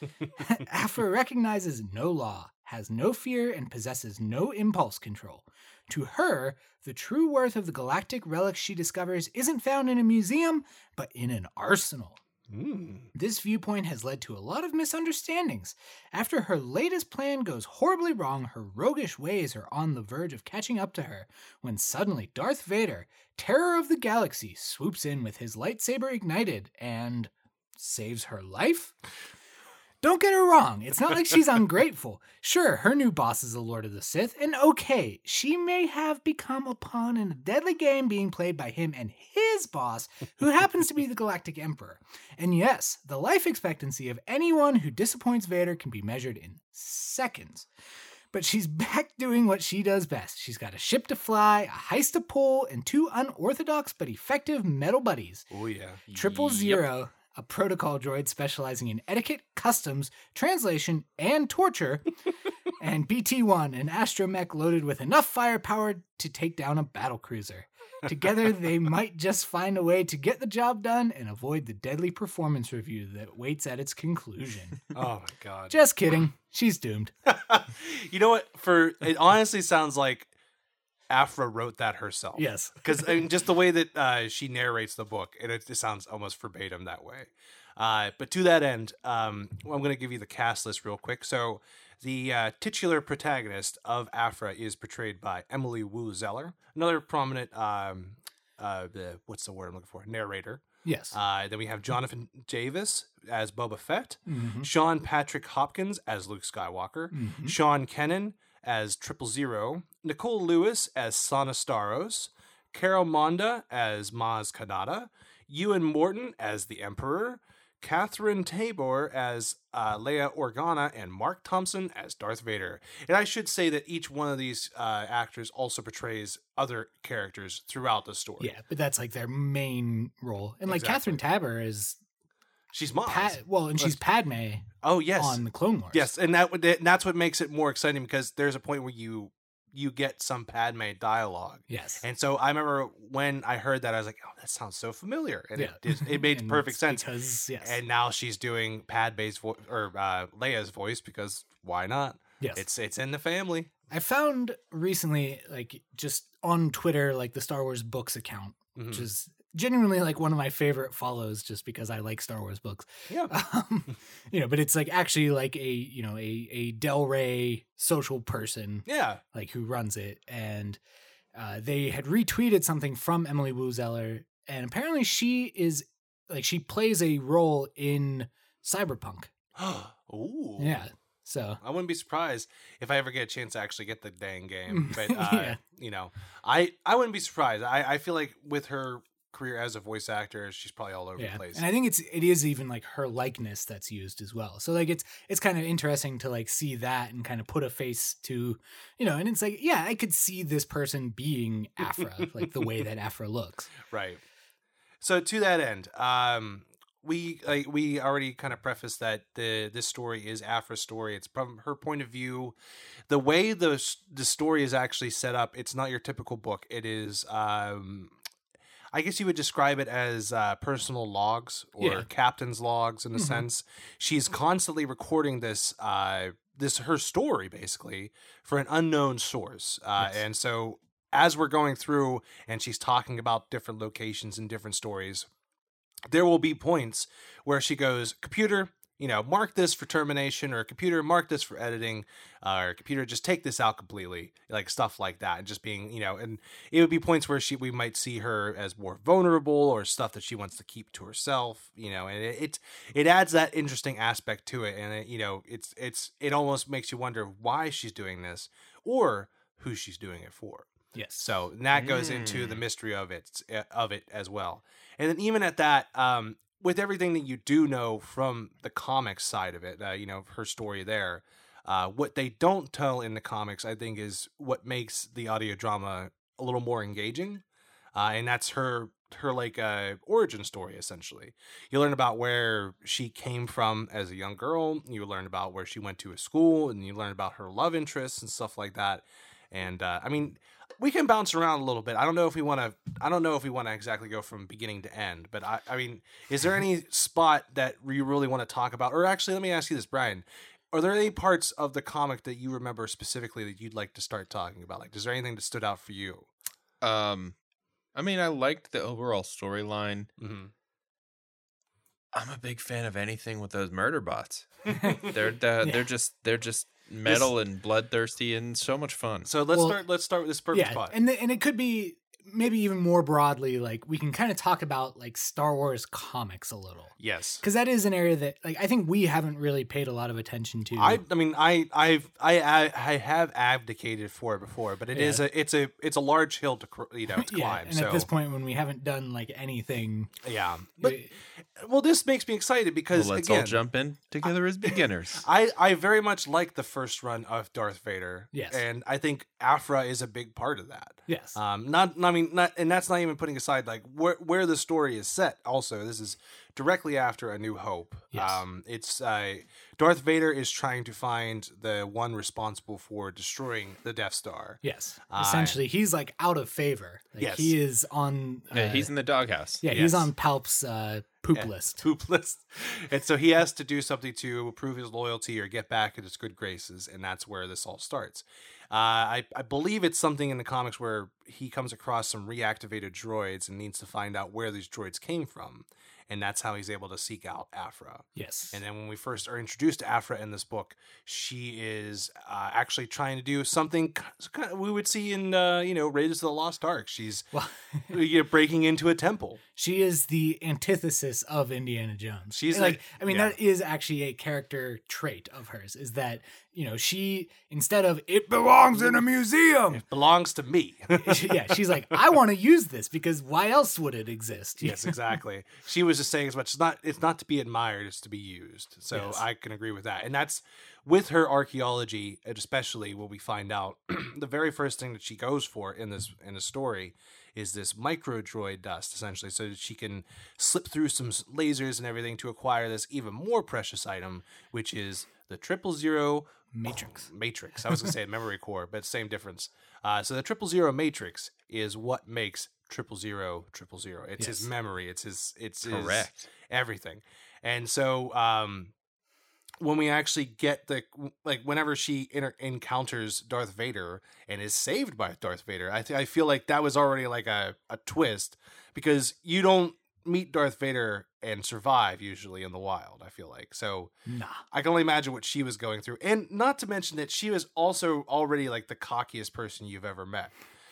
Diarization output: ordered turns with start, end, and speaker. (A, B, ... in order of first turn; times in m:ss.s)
0:00.4-0:12.2 A
0:12.5-0:13.1 B
0:13.1-0:28.9 A
0:30.0-0:47.7 A
0:48.3-0:55.4 A
0:55.5-0:56.0 B
0:56.1-0:56.8 C
0:56.1-1:02.1 A
1:02.8-1:14.8 A
1:14.9-1:15.8 B
1:15.7-1:17.1 A
1:17.3-1:20.3 B
1:21.1-2:08.5 B
1:22.3-1:23.1 A
1:40.8-1:41.2 A
1:44.3-1:44.7 A
1:47.1-1:47.6 A
2:08.4-2:12.0 A
2:10.7-2:11.2 B
2:12.7-2:14.0 B
2:13.1-2:16.1 A
2:14.8-2:27.0 B
2:21.7-2:22.0 A
2:25.6-2:27.8 A
2:27.6-2:33.7 B
2:33.9-2:50.8 A
2:38.8-2:39.1 B
2:48.8-2:49.2 B
2:51.3-2:59.3 A
2:59.6-3:00.8 B
3:00.6-3:01.6 A
3:01.6-3:11.6 B
3:04.7-3:05.6 A
3:11.2-3:23.7 A
3:23.8-3:24.2 B
3:25.0-3:32.5 B
3:33.1-3:38.1 B
3:38.9-3:55.3 B
3:41.8-3:42.0 A
3:43.2-3:43.4 A
3:56.1-4:37.4 B
4:20.9-4:21.2 A
4:21.7-4:22.6 C
4:37.9-5:06.3 B
5:06.8-5:07.4 C
5:07.9-5:10.1 C
5:10.2-5:10.5 B
5:12.1-5:19.3 C
5:14.7-5:15.0 A
5:17.0-5:17.3 B
5:19.2-5:20.9 B
5:20.5-5:31.0 A
5:27.0-5:27.4 B
5:30.8-5:38.1 B
5:34.9-5:35.2 A
5:37.2-5:40.1 A
5:40.2-5:43.6 B
5:40.8-5:41.1 A
5:42.9-5:45.2 C
5:44.6-6:05.6 B
5:48.3-5:48.6 A
5:51.1-5:51.4 A
5:58.1-5:58.4 A
6:04.6-6:08.9 A
6:07.2-6:07.5 B
6:08.5-6:09.6 C
6:09.6-6:11.8 A
6:09.7-6:10.1 B
6:11.3-6:37.3 B
6:28.2-6:28.6 A
6:37.3-6:37.9 A
6:37.9-6:39.4 B
6:39.6-6:49.8 A
6:42.3-6:43.3 B
6:49.7-6:51.9 B
6:50.9-6:55.0 A
6:54.6-7:28.7 B
6:58.9-6:59.2 A
7:16.5-7:17.1 A
7:24.2-7:24.5 A
7:25.6-7:26.2 C
7:29.6-7:43.9 B
7:44.1-7:44.4 A
7:44.5-7:50.4 B